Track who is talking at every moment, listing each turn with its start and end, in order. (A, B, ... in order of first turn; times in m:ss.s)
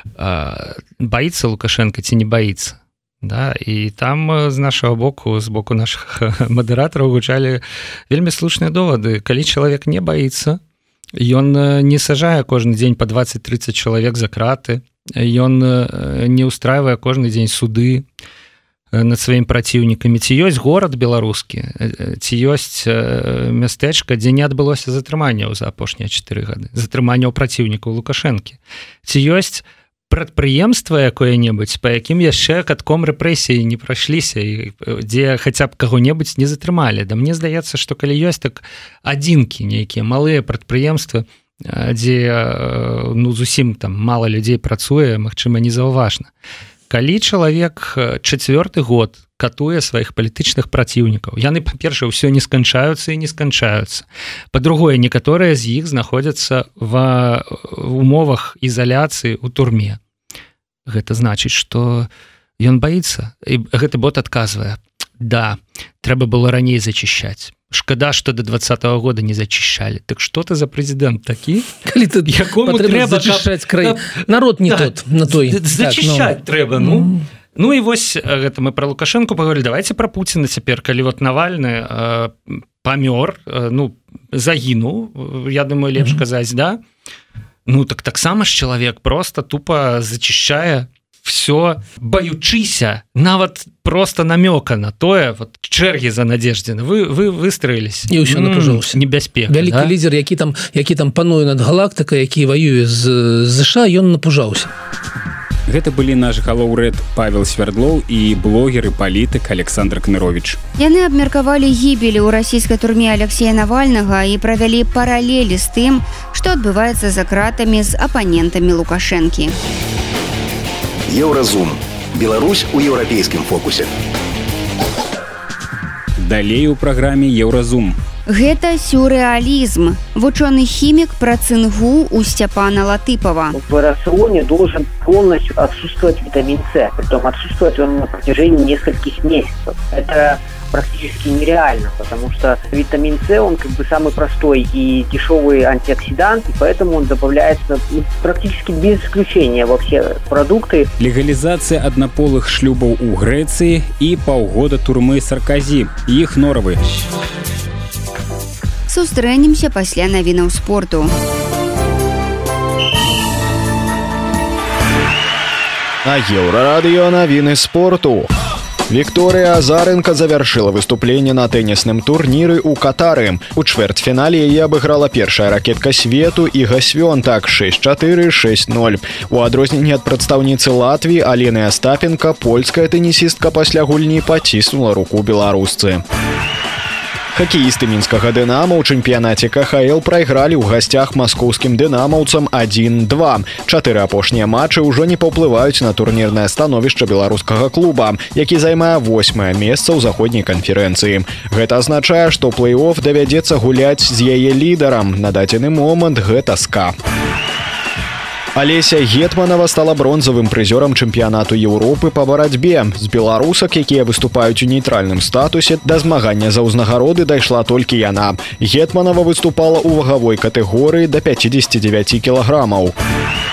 0:00.2-0:10.6 A
0:11.1-0:18.1 A
0:18.9-0:46.3 A
0:46.9-1:00.0 A
1:00.8-1:02.1 A
1:02.6-1:26.8 A
1:11.8-1:17.2 B
1:27.6-1:39.9 A
1:38.1-1:44.7 B
1:45.7-1:50.6 C
1:50.8-1:59.5 D
2:01.1-2:03.9 E
2:06.2-2:08.0 C
2:08.3-2:13.6 D
2:13.5-2:30.9 F
2:31.0-2:36.8 C
2:38.9-2:41.1 D
2:46.0-2:48.3 G
2:48.9-3:06.0 G
3:07.3-3:27.0 G
3:28.5-3:42.9 G